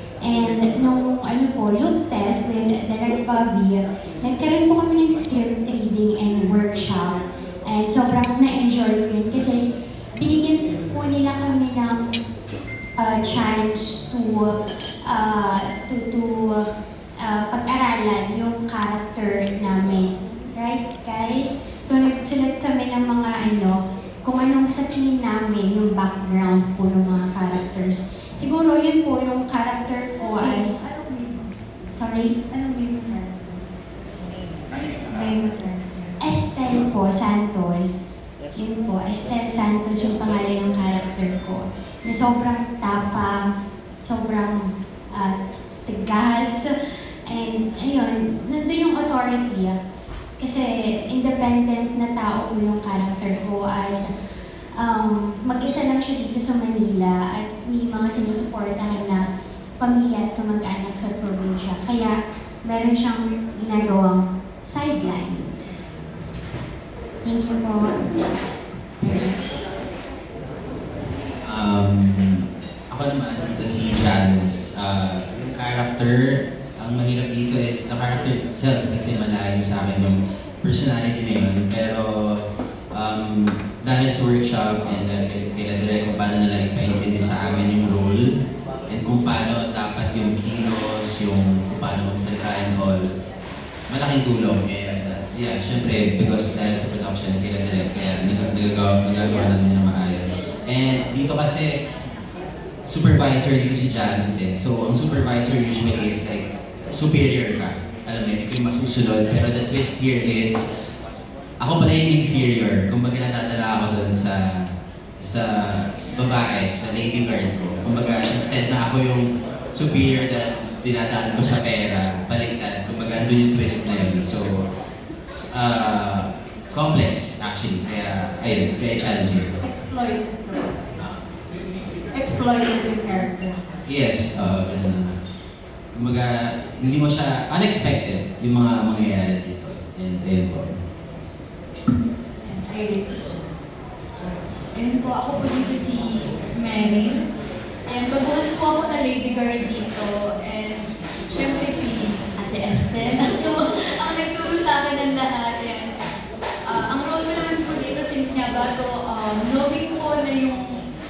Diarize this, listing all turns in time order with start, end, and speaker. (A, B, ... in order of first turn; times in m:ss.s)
0:00.2-0:09.6 A
0:10.2-0:12.0 A
0:13.0-0:14.5 A
0:15.1-0:16.6 A
0:17.2-0:30.8 A
0:30.4-0:31.5 B
0:32.0-0:32.3 A
0:32.5-0:33.6 B
0:34.7-0:36.2 B
0:36.2-0:37.9 A
0:38.6-0:43.4 A
0:44.0-0:44.6 A
0:45.8-0:46.7 A
0:47.3-0:49.7 A
0:50.4-0:54.0 A
0:54.8-0:59.2 A
0:59.8-1:02.1 A
1:02.6-1:05.7 A
1:07.2-1:08.1 A
1:09.0-1:09.4 A
1:11.4-1:28.2 C
1:28.9-1:33.1 C
1:33.9-1:41.7 C
1:42.8-1:50.6 C
1:51.6-2:04.6 C
2:05.3-2:09.5 C
2:09.7-2:10.6 B
2:12.1-2:13.6 B
2:13.9-2:15.2 C
2:15.9-2:20.8 C
2:22.4-2:23.1 B
2:24.7-2:27.2 B
2:27.9-2:35.9 B
2:36.6-2:40.7 B